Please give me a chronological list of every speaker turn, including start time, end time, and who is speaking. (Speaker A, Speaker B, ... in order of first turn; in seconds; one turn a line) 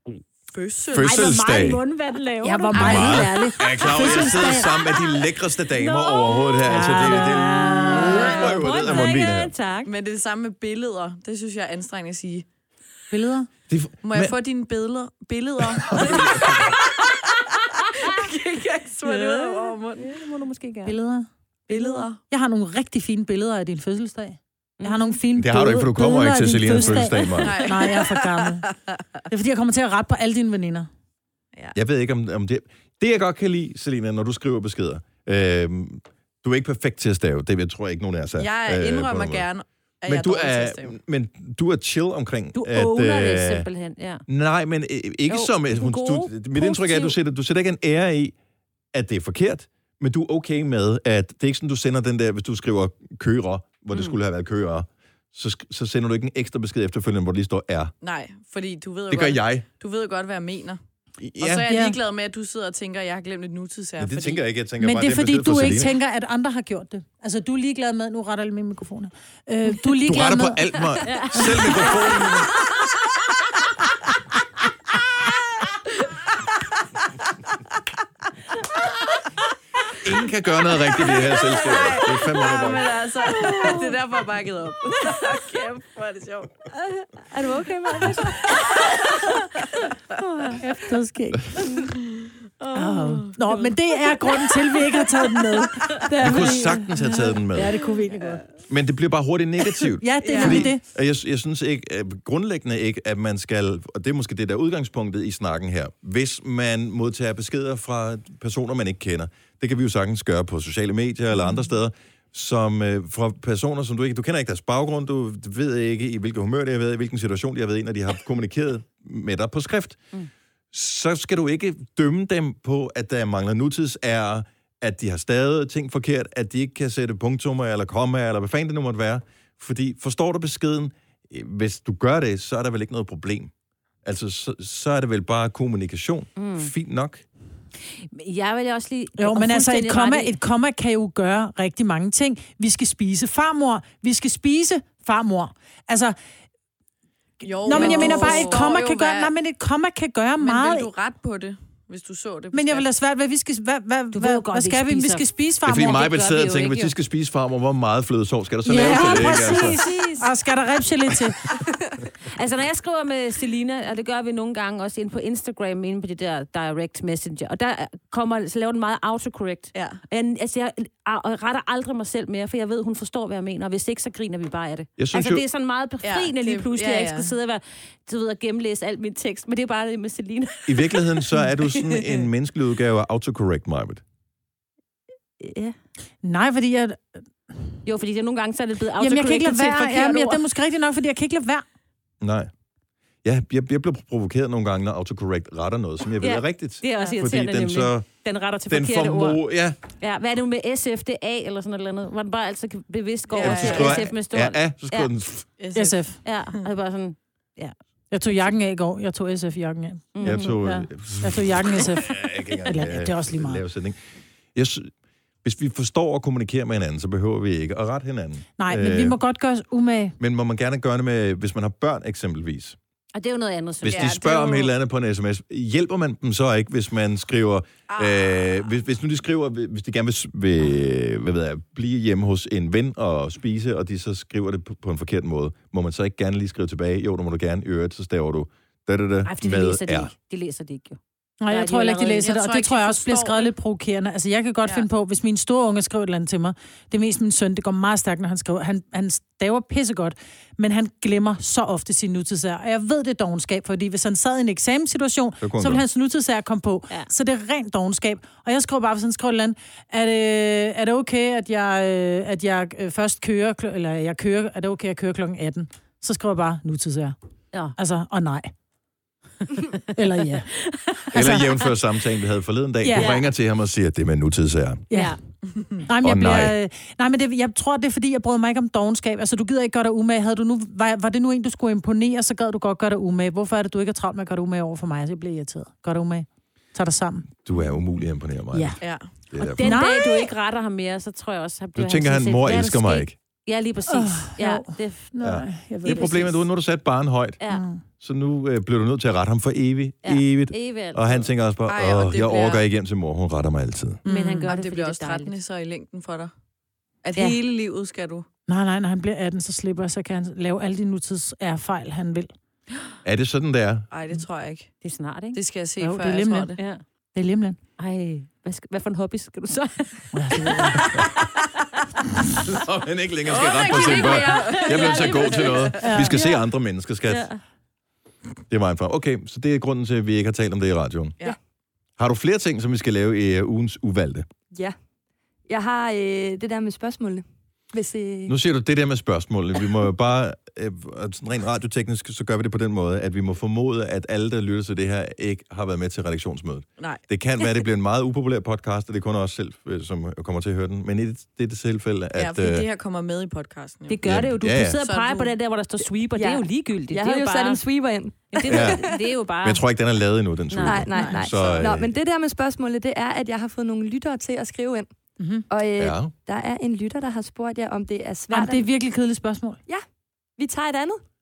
Speaker A: 0.5-1.3
Speaker B: 0.9-1.8
Speaker C: 1.0-5.2
Speaker D: 2.4-4.6
Speaker B: 2.7-9.5
Speaker C: 5.7-9.9
Speaker D: 6.7-8.2
Speaker A: 9.8-12.4
Speaker D: 13.1-13.5
Speaker B: 13.7-14.3
Speaker A: 14.0-17.4
Speaker B: 15.6-16.7
Speaker A: 18.0-20.2
Speaker C: 19.0-21.0
Speaker D: 20.9-28.7
Speaker A: 21.7-22.2
Speaker C: 24.8-25.2
Speaker B: 25.3-27.6
Speaker C: 26.7-27.1
Speaker A: 27.4-29.0
Speaker D: 29.3-30.9
Speaker B: 31.7-39.5
Speaker A: 38.4-41.0
Speaker B: 40.1-43.7
Speaker C: 42.5-44.2
Speaker B: 44.3-48.3
Speaker C: 45.3-47.2
Speaker B: 48.9-57.9
Speaker A: 58.0-60.8
Speaker B: 59.1-59.6
Speaker B: 61.2-61.7
Speaker A: 61.4-64.4
Speaker D: 61.7-62.0
Speaker B: 64.0-65.9
Speaker D: 64.8-70.8
Speaker B: 70.0-72.5
Speaker C: 71.0-72.4
Speaker B: 80.0-82.9
Speaker A: 81.2-86.5
Speaker C: 83.3-84.0
Speaker C: 87.3-90.6
Speaker A: 88.5-89.3
Speaker D: 90.6-91.7
Speaker A: 92.0-93.4
Speaker D: 92.7-98.4
Speaker A: 95.5-96.0
Speaker B: 96.1-97.8
Speaker B: 98.7-120.1
Speaker D: 100.0-100.8
Speaker A: 100.2-100.7
Speaker B: 120.7-133.5
Speaker B: 134.0-137.2
Speaker C: 136.4-136.7
Speaker C: 138.1-140.4
Speaker D: 139.2-146.1
Speaker A: 147.4-149.3
Speaker D: 147.6-150.9
Speaker C: 147.7-148.8
Speaker A: 150.4-152.9
Speaker D: 152.5-155.9
Speaker C: 154.1-156.9
Speaker B: 155.6-159.8
Speaker D: 158.6-161.4
Speaker C: 158.7-160.3
Speaker C: 162.3-181.7
Speaker A: 169.7-170.0
Speaker B: 175.0-175.4
Speaker A: 176.0-177.3
Speaker B: 180.7-184.0
Speaker C: 185.4-185.7
Speaker D: 186.2-187.0
Speaker C: 187.8-190.2
Speaker D: 189.0-191.6
Speaker B: 192.2-192.5
Speaker B: 193.2-198.1
Speaker C: 196.2-199.4
Speaker B: 198.7-199.8
Speaker C: 200.0-205.1
Speaker A: 203.3-204.1
Speaker B: 203.4-205.4
Speaker A: 205.6-206.6
Speaker D: 205.7-206.2
Speaker C: 206.2-207.7
Speaker D: 208.1-213.6
Speaker C: 210.1-210.5
Speaker B: 210.2-214.0
Speaker B: 214.5-214.9
Speaker B: 215.4-219.2
Speaker D: 218.6-220.1
Speaker B: 220.2-222.8
Speaker C: 223.1-224.6
Speaker A: 223.8-224.7
Speaker B: 223.8-240.1
Speaker A: 227.9-228.4
Speaker C: 239.2-242.3
Speaker D: 241.4-267.1
Speaker A: 242.1-243.5
Speaker B: 255.4-255.8
Speaker D: 267.8-268.5
Speaker D: 269.9-270.5
Speaker C: 270.7-271.5
Speaker B: 271.1-274.8
Speaker C: 272.9-273.3
Speaker D: 275.9-287.3
Speaker B: 276.0-276.5
Speaker B: 287.4-289.8
Speaker D: 288.5-288.8
Speaker A: 288.8-289.1
Speaker C: 289.4-295.1
Speaker D: 289.6-290.3
Speaker B: 291.8-293.1
Speaker D: 293.9-296.1
Speaker B: 295.2-297.4
Speaker C: 295.8-296.4
Speaker D: 297.5-297.8
Speaker B: 298.0-304.0
Speaker C: 300.0-301.3
Speaker A: 301.7-302.6
Speaker D: 304.0-304.5
Speaker C: 304.0-305.3
Speaker A: 304.5-306.3
Speaker A: 307.0-308.2
Speaker D: 308.5-312.3
Speaker B: 313.0-313.9
Speaker A: 313.9-314.7
Speaker C: 314.8-315.4
Speaker A: 315.3-316.6
Speaker D: 315.8-316.5
Speaker C: 316.6-316.8
Speaker D: 317.1-317.6
Speaker C: 317.8-321.0
Speaker D: 320.1-320.9
Speaker B: 322.4-327.3
Speaker A: 323.2-325.8
Speaker C: 323.7-326.4
Speaker D: 325.8-326.2
Speaker C: 327.1-327.4
Speaker B: 328.5-331.1
Speaker B: 332.0-334.3
Speaker E: 335.5-338.3
Speaker B: 338.3-352.7
Speaker A: 352.1-354.1
Speaker C: 353.9-357.6
Speaker B: 354.0-354.8
Speaker A: 354.8-355.3
Speaker E: 356.1-358.8
Speaker C: 358.3-359.6
Speaker B: 358.4-361.9
Speaker C: 360.5-360.9
Speaker E: 360.6-364.9
Speaker D: 360.9-361.2
Speaker D: 365.2-365.5
Speaker E: 365.5-368.6
Speaker B: 365.8-366.1
Speaker D: 368.3-369.6
Speaker E: 370.4-371.0